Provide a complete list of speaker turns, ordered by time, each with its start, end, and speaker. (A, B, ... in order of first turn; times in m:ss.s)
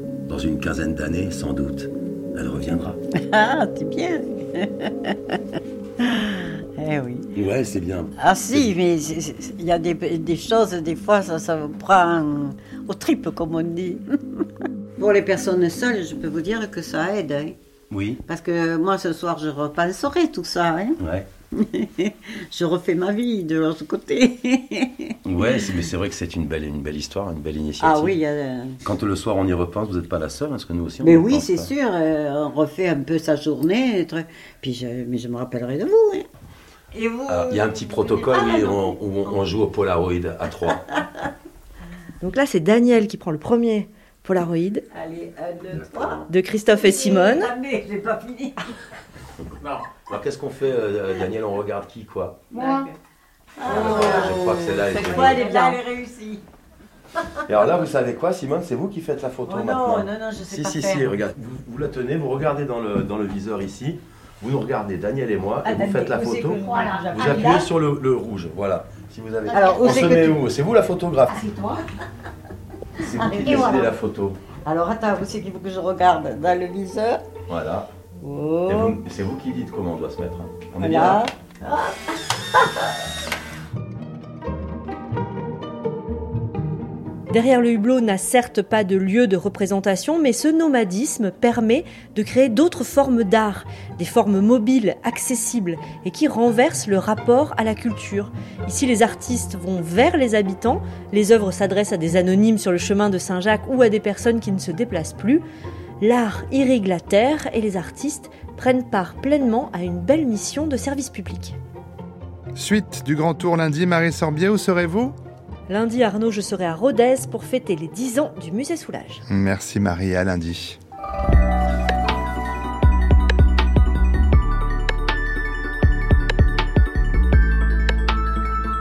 0:00.3-0:03.0 A
0:03.2-0:05.2 B
0:06.0-0:07.3 B
0:07.4-0:08.7 A
0:08.2-0:14.0 B
0:15.0-0:17.6 B
0:17.9-0:18.2 A
0:18.2-0:21.0 B
0:21.0-0:21.3 A
0:21.6-0:25.8 B
0:25.2-0:28.2 A
0:27.8-0:28.8 B
0:28.8-0:31.7 A
0:31.0-0:36.3 B
0:36.9-0:39.6 B
0:37.3-0:40.9 A
0:42.2-0:44.8 C
0:44.9-0:48.6 B
0:45.7-0:46.3 A
0:46.3-0:47.5 C
0:49.6-0:52.5 A
0:52.5-0:52.9 B
0:53.6-0:56.4 B
0:53.7-0:55.5 A
0:55.0-0:55.8 C
0:57.5-1:11.8 A
0:59.4-1:01.2 B
1:05.6-1:07.7 B
1:09.5-1:10.5 B
1:11.4-1:11.8 B
1:13.0-1:14.4 A
1:13.1-1:14.0 B
1:14.6-1:17.2 B
1:17.5-1:17.9 A
1:18.2-1:19.0 B
1:18.7-1:21.3 A
1:20.8-1:22.0 B
1:27.3-1:45.4 C
1:46.0-1:51.6 C
1:52.6-1:55.2 D
1:55.7-1:59.2 C
1:59.3-2:00.8 D